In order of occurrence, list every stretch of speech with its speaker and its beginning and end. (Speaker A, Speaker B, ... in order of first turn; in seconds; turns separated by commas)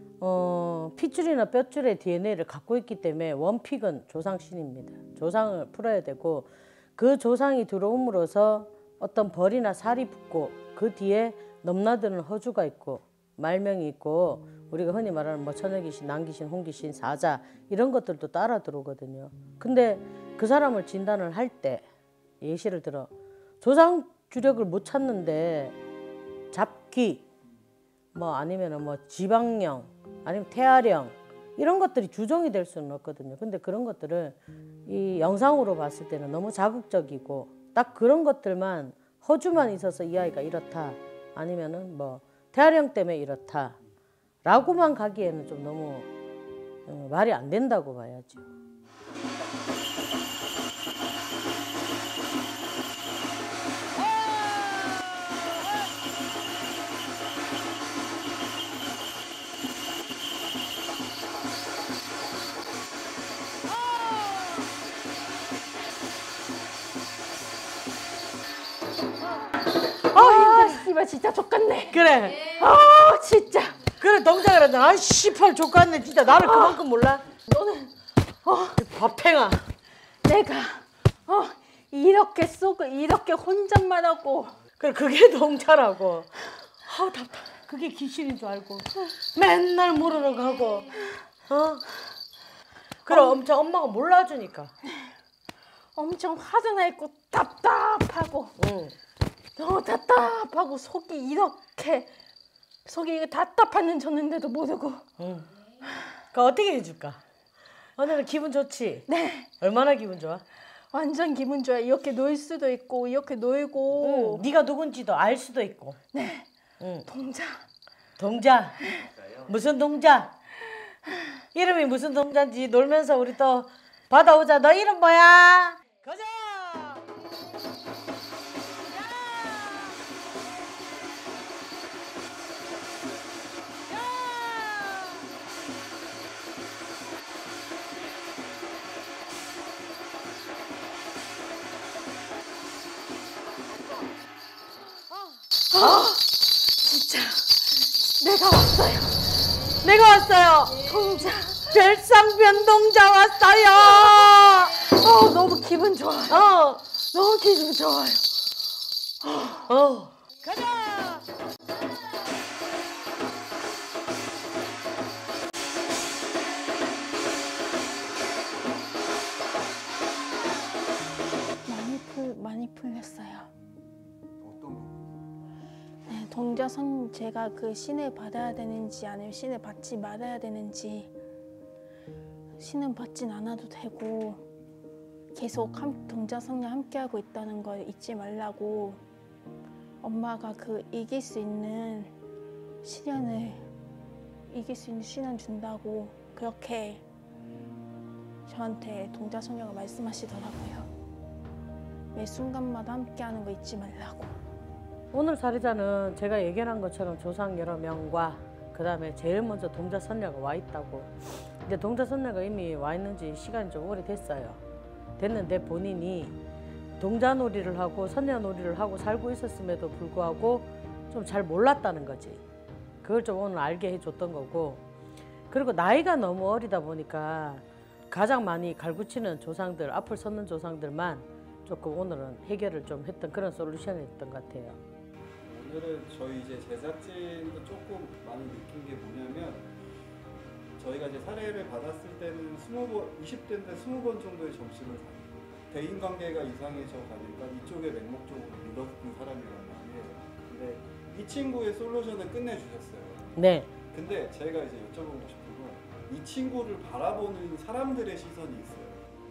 Speaker A: 0.2-21.8, Speaker A: 22.4-23.1, Speaker A: 23.6-25.8, Speaker A: 26.5-27.2, Speaker A: 28.1-43.8, Speaker A: 44.4-46.1, Speaker A: 46.9-48.5, Speaker B: 70.0-73.8, Speaker A: 70.1-70.8, Speaker A: 71.9-72.5, Speaker A: 74.0-77.2, Speaker B: 76.3-76.8, Speaker B: 77.5-78.8, Speaker A: 78.7-79.7, Speaker B: 80.2-84.6, Speaker A: 84.8-86.3, Speaker A: 86.8-91.8, Speaker B: 87.1-87.5, Speaker A: 93.0-94.7, Speaker B: 93.1-93.4, Speaker B: 95.9-98.5, Speaker A: 98.6-98.9, Speaker B: 99.5-102.1, Speaker B: 102.8-105.0, Speaker A: 105.2-105.5, Speaker A: 106.3-107.2, Speaker A: 108.0-109.0, Speaker B: 109.1-109.5, Speaker A: 109.6-110.4, Speaker B: 110.9-114.5, Speaker A: 114.0-116.0, Speaker B: 116.1-116.5, Speaker A: 116.8-117.0, Speaker B: 117.1-117.6, Speaker A: 118.2-120.3, Speaker B: 118.8-119.1, Speaker A: 121.5-127.0, Speaker A: 129.1-129.7, Speaker A: 134.3-135.0, Speaker B: 145.7-149.5, Speaker A: 149.8-150.8, Speaker B: 150.8-151.9, Speaker A: 151.7-154.9, Speaker B: 153.6-156.4, Speaker A: 156.3-156.8, Speaker B: 157.0-158.3, Speaker B: 159.2-159.7, Speaker A: 159.7-161.2, Speaker B: 171.7-173.5, Speaker C: 173.8-175.3, Speaker B: 176.1-181.1, Speaker B: 182.6-184.4, Speaker B: 185.3-189.0, Speaker B: 190.0-192.1, Speaker B: 192.8-193.7, Speaker B: 194.5-197.0, Speaker B: 198.4-200.9, Speaker B: 202.1-204.3, Speaker A: 205.1-214.6, Speaker A: 215.2-216.3, Speaker A: 217.0-222.4, Speaker A: 223.0-224.8, Speaker A: 225.5-234.8, Speaker C: 235.4-239.7, Speaker C: 240.8-259.1, Speaker A: 253.4-253.7